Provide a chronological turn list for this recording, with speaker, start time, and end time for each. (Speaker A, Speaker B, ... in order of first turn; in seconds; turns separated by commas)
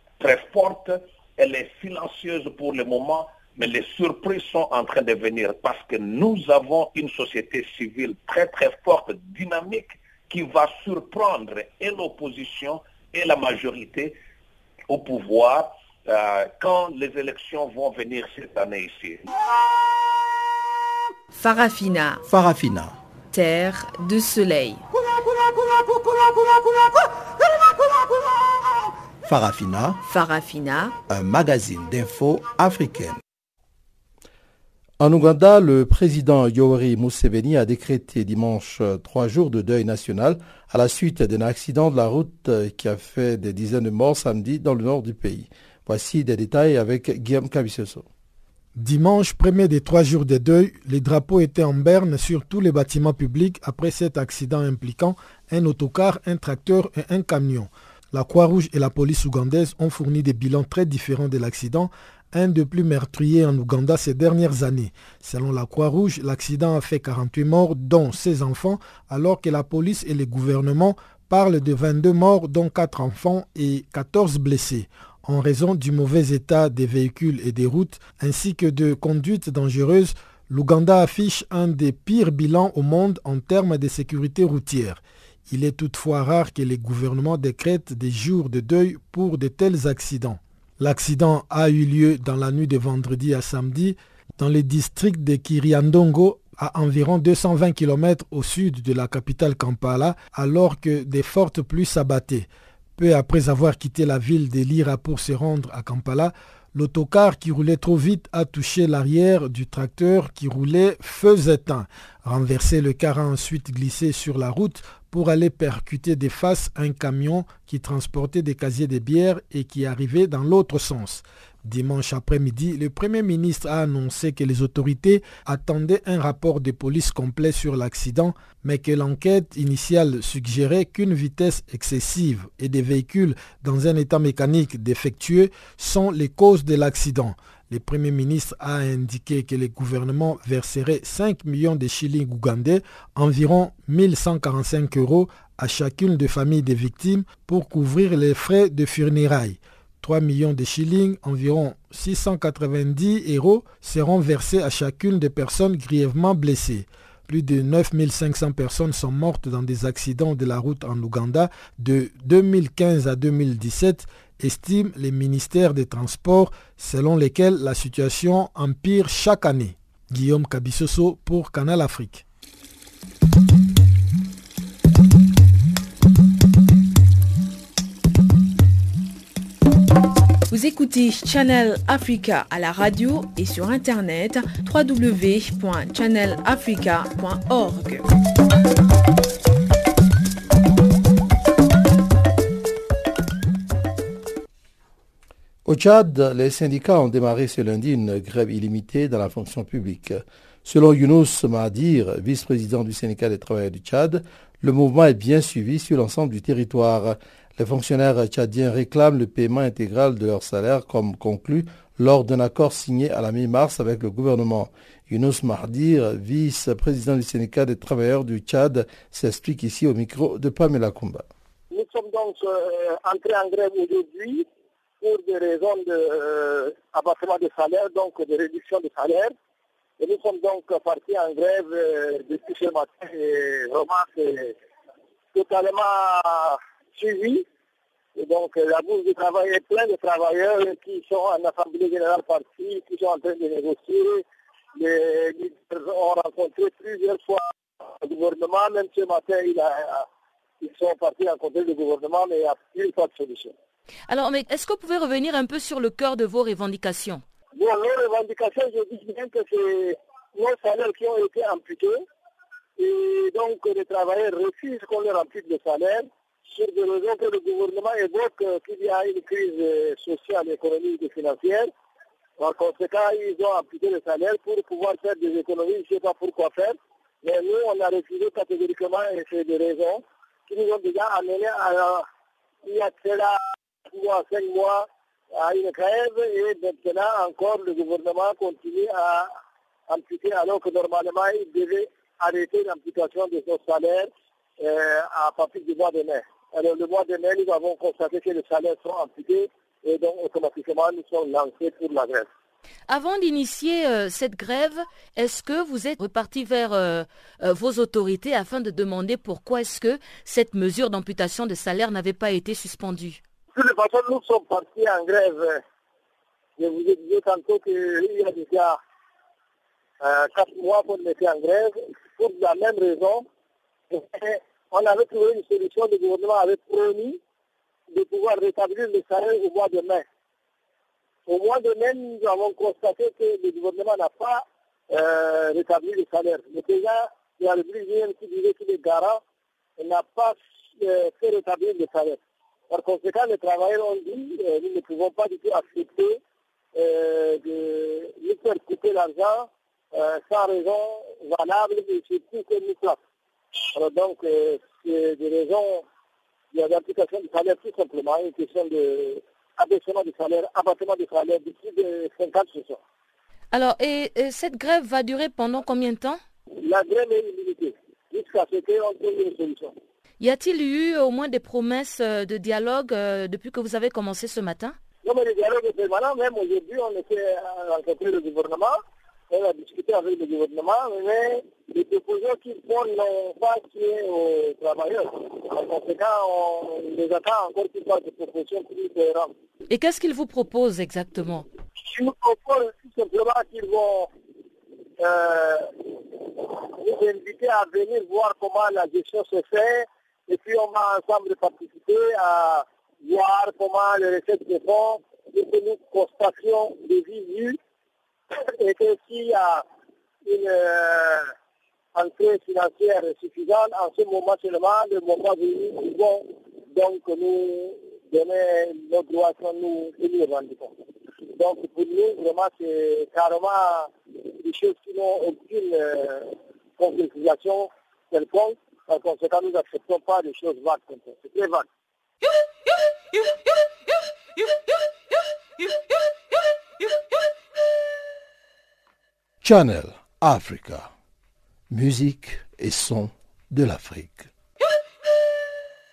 Speaker A: 0.2-14.2, Speaker A: 14.9-19.2, Speaker B: 21.3-22.2, Speaker C: 22.3-22.9, Speaker B: 23.3-24.8, Speaker C: 29.2-30.0, Speaker B: 30.0-30.9, Speaker C: 31.1-33.2, Speaker C: 35.0-48.0, Speaker D: 48.8-172.2, Speaker B: 180.5-188.0, Speaker C: 195.7-221.2, Speaker E: 221.7-224.4, Speaker E: 225.0-229.3, Speaker E: 230.0-234.5, Speaker E: 235.3-237.4, Speaker E: 238.2-244.2, Speaker E: 244.7-247.4, Speaker E: 248.0-250.1, Speaker E: 250.6-253.5, Speaker F: 254.1-257.2, Speaker E: 257.6-262.0, Speaker E: 262.8-271.7, Speaker E: 272.4-282.1, Speaker E: 282.6-289.3, Speaker E: 289.9-302.3, Speaker F: 302.9-313.2, Speaker E: 313.5-315.6, Speaker E: 316.6-318.8, Speaker E: 320.0-323.2, Speaker E: 323.9-327.2, Speaker E: 327.9-330.0, Speaker E: 331.3-339.2, Speaker E: 339.8-342.2, Speaker E: 342.7-346.2, Speaker E: 346.7-353.0, Speaker E: 353.7-355.8, Speaker E: 356.5-362.8, Speaker F: 363.5-366.2, Speaker E: 366.6-369.7, Speaker F: 370.2-374.8, Speaker E: 375.0-378.8, Speaker E: 379.3-389.3, Speaker F: 389.7-391.4, Speaker E: 391.8-394.1, Speaker E: 395.0-395.7, Speaker E: 396.4-407.6, Speaker E: 408.4-409.6, Speaker E: 410.2-411.3, Speaker E: 411.9-420.7, Speaker E: 421.3-431.6, Speaker C: 439.4-440.9, Speaker C: 441.7-444.3